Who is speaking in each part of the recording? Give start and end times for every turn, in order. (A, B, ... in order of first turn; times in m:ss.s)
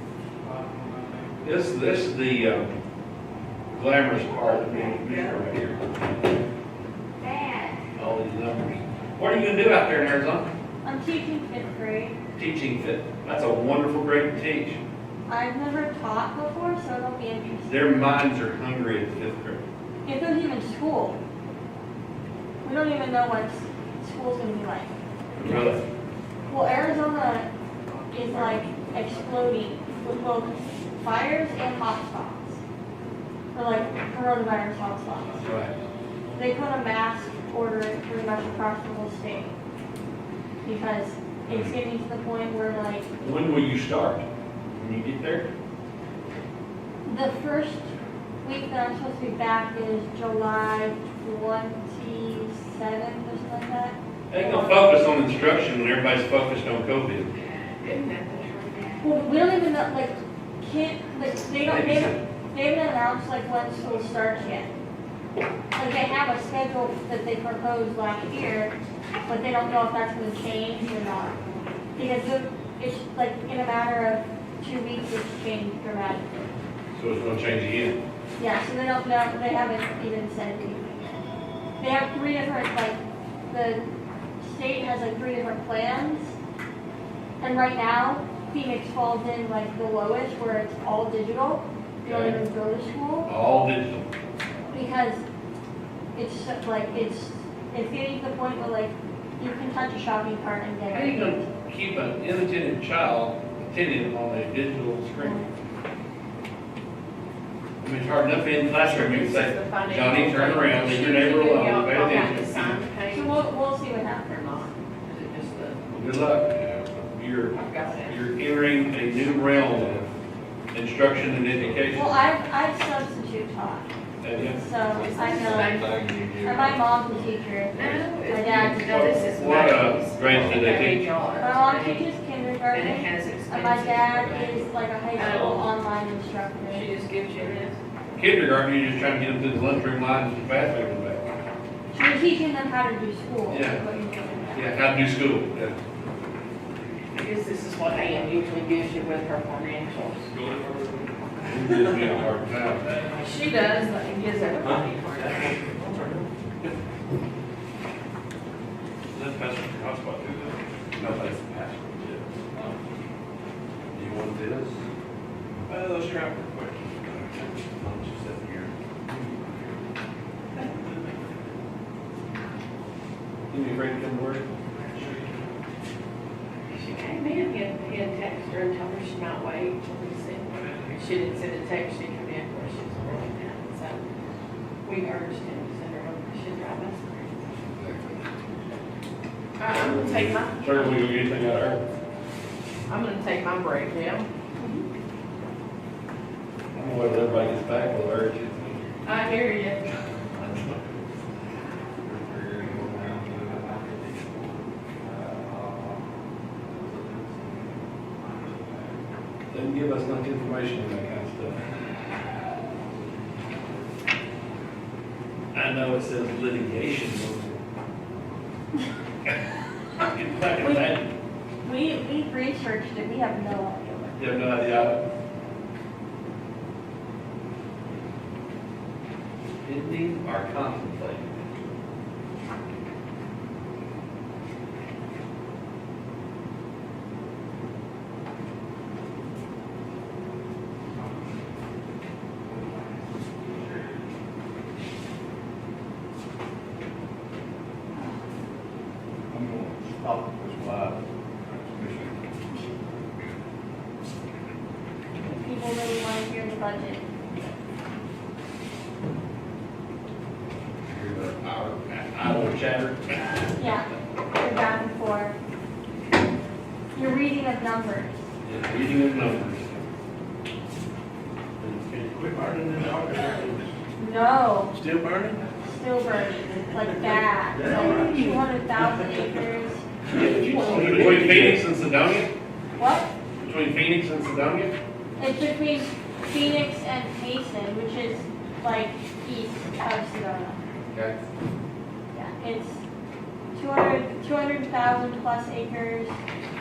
0:01.4-0:02.8 A
0:03.7-0:06.0 A
0:07.9-0:10.5 A
0:10.8-0:12.2 B
0:12.4-0:14.8 A
0:15.3-0:17.8 B
0:17.6-0:19.6 A
0:20.0-0:21.2 B
0:22.6-0:25.0 B
0:25.4-0:25.8 A
0:26.5-0:27.5 B
0:28.1-0:32.6 B
0:33.5-0:35.5 B
0:35.4-0:35.7 A
0:36.3-0:39.6 B
0:40.6-0:43.1 B
0:43.2-0:45.5 A
0:47.0-0:47.9 B
0:48.4-0:55.0 B
0:54.3-0:57.3 A
0:57.8-0:58.9 C
0:59.0-1:04.7 B
1:01.6-1:02.2 A
1:05.7-1:08.7 B
1:09.3-1:11.4 B
1:11.9-1:16.3 B
1:16.9-1:18.0 A
1:18.4-1:21.0 B
1:21.8-1:23.8 B
1:24.4-1:26.4 B
1:27.4-1:33.3 B
1:32.0-1:32.4 A
1:33.3-1:34.1 A
1:34.7-1:35.2 B
1:36.1-1:41.5 B
1:40.9-1:45.4 A
1:45.2-1:45.5 B
1:47.8-1:52.8 A
1:48.8-1:53.4 C
1:53.1-1:54.4 B
1:54.2-1:55.8 C
1:55.9-2:00.1 A
1:56.5-1:57.1 D
1:57.5-1:58.2 C
1:59.7-2:00.1 D
2:00.7-2:02.2 A
2:01.5-2:01.9 D
2:01.9-2:03.9 B
2:04.2-2:04.7 A
2:04.5-2:05.8 B
2:04.9-2:06.1 C
2:05.0-2:06.8 D
2:06.4-2:08.8 B
2:07.7-2:12.1 C
2:07.7-2:08.0 D
2:08.5-2:11.0 A
2:10.3-2:10.7 D
2:11.4-2:16.9 B
2:12.7-2:15.7 C
2:16.7-2:17.8 C
2:18.1-2:21.2 A
2:21.9-2:24.7 B
2:23.5-2:23.8 A
2:24.5-2:25.8 A
2:27.1-2:30.3 C
2:30.3-2:31.5 D
2:31.4-2:32.9 A
2:33.1-2:35.8 C
2:39.3-2:40.5 D
2:41.0-2:42.6 A
2:43.9-2:44.8 A
2:45.7-2:48.7 D
2:49.1-2:49.3 A
2:53.5-2:54.5 A
2:56.7-3:04.0 C
3:04.8-3:07.4 C
3:07.7-3:08.2 A
3:09.6-3:11.0 C
3:09.7-3:11.8 A
3:12.9-3:14.8 C
3:16.7-3:18.8 A
3:19.0-3:19.9 C
3:22.1-3:24.2 D
3:25.0-3:26.0 D
3:26.6-3:29.0 D
3:29.5-3:31.6 A
3:35.5-3:37.5 A
3:40.0-3:41.1 A
3:40.6-3:40.9 B
3:41.6-3:44.9 B
3:44.2-3:45.0 A
3:49.6-3:51.4 A
4:02.5-4:03.7 D
4:09.3-4:11.0 D
4:11.6-4:12.1 D
4:11.8-4:12.1 A
4:15.3-4:17.1 B
4:20.9-4:23.2 A
4:23.6-4:25.4 B
4:26.9-4:28.1 B
4:28.4-4:29.6 A
4:31.6-4:33.6 D
4:34.0-4:34.7 B
4:34.8-4:35.4 D
4:35.6-4:39.8 B
4:37.6-4:38.2 D
4:40.1-4:41.6 D
4:40.1-4:42.3 A
4:42.8-4:43.1 B
4:43.4-4:44.7 A
4:45.2-4:50.6 B
4:50.9-4:51.2 A
4:52.1-4:52.8 B
4:53.5-4:56.2 B